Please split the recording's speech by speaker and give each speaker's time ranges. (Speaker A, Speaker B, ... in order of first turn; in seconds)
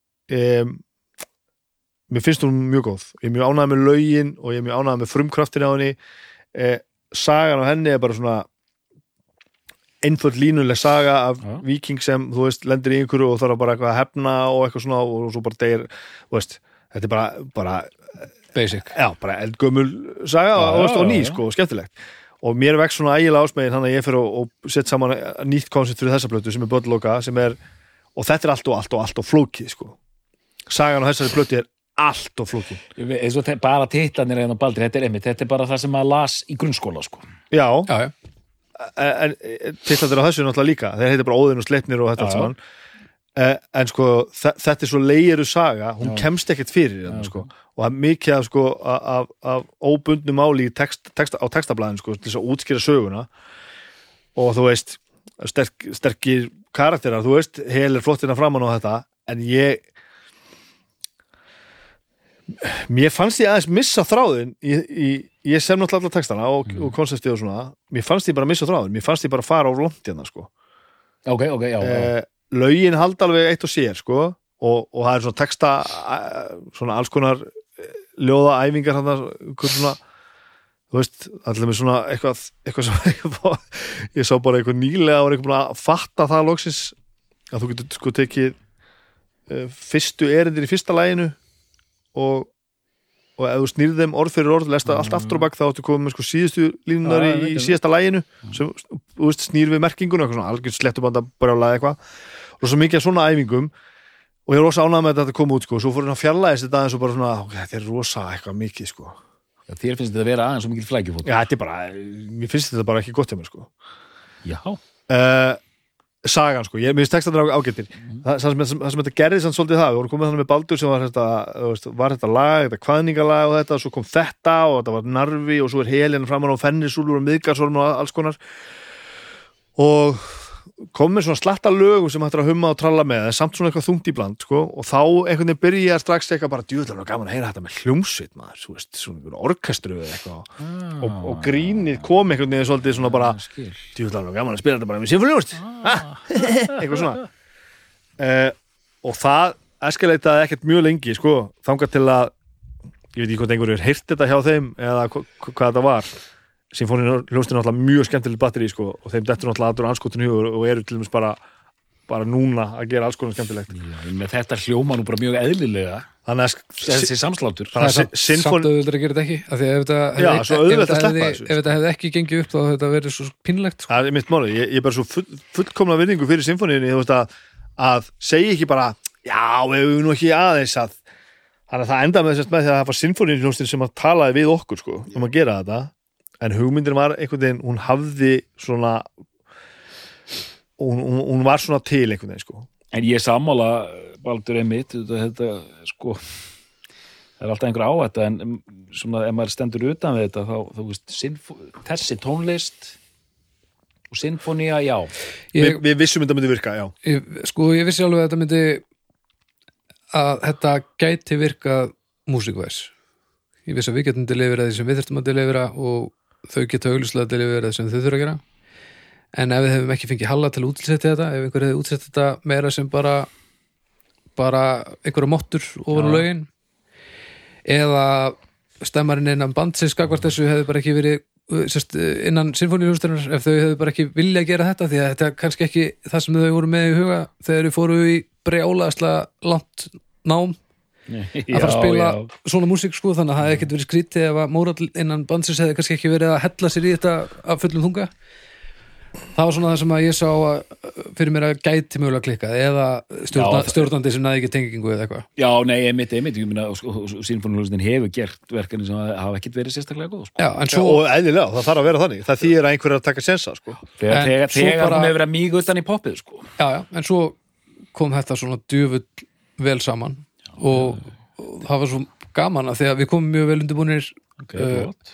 Speaker A: 0.3-0.8, 2.1-6.0, 6.5-8.5, 10.0-18.1, 18.9-27.6, 28.1-30.0, 30.7-32.8, 37.5-37.9, 38.8-42.6, 43.4-53.3, 54.4-59.8, 62.5-70.5, 71.8-80.0, 80.9-86.9, 87.5-88.6, 89.5-91.4, 92.1-92.5, 93.4-102.0, 102.6-103.7, 104.5-109.2, 111.2-113.7, 115.1-115.6, 116.2-128.4, 129.8-143.3, 143.9-147.2, 148.2-152.3, 153.1-156.1, 156.7-161.4, 162.1-163.7, 166.2-167.1, 167.7-168.7, 170.2-171.6, 173.9-181.0, 181.7-189.1, 190.8-192.7, 205.6-206.9, 260.7-263.8
Speaker B: 18.5-18.9, 37.9-38.1, 167.8-173.9, 205.5-205.8, 207.0-208.8, 210.1-212.9, 213.7-218.4, 219.3-223.3, 224.3-226.5, 227.7-240.6, 241.5-248.1, 249.3-255.2, 260.4-261.0, 264.1-265.1, 266.6-267.4, 267.9-274.9
Speaker C: 20.6-21.4, 33.0-37.3, 42.2-42.5, 47.1-47.5, 71.2-72.1, 94.9-95.5, 97.0-97.8, 109.7-111.3, 114.4-114.8, 140.6-142.0, 142.8-143.9, 145.6-147.1, 163.7-166.1, 166.8-167.7, 192.9-196.2, 197.4-202.9, 204.1-205.1, 225.9-226.2, 241.1-242.3, 253.3-253.9, 255.4-260.5, 264.0-266.5, 270.7-271.1, 274.4-275.0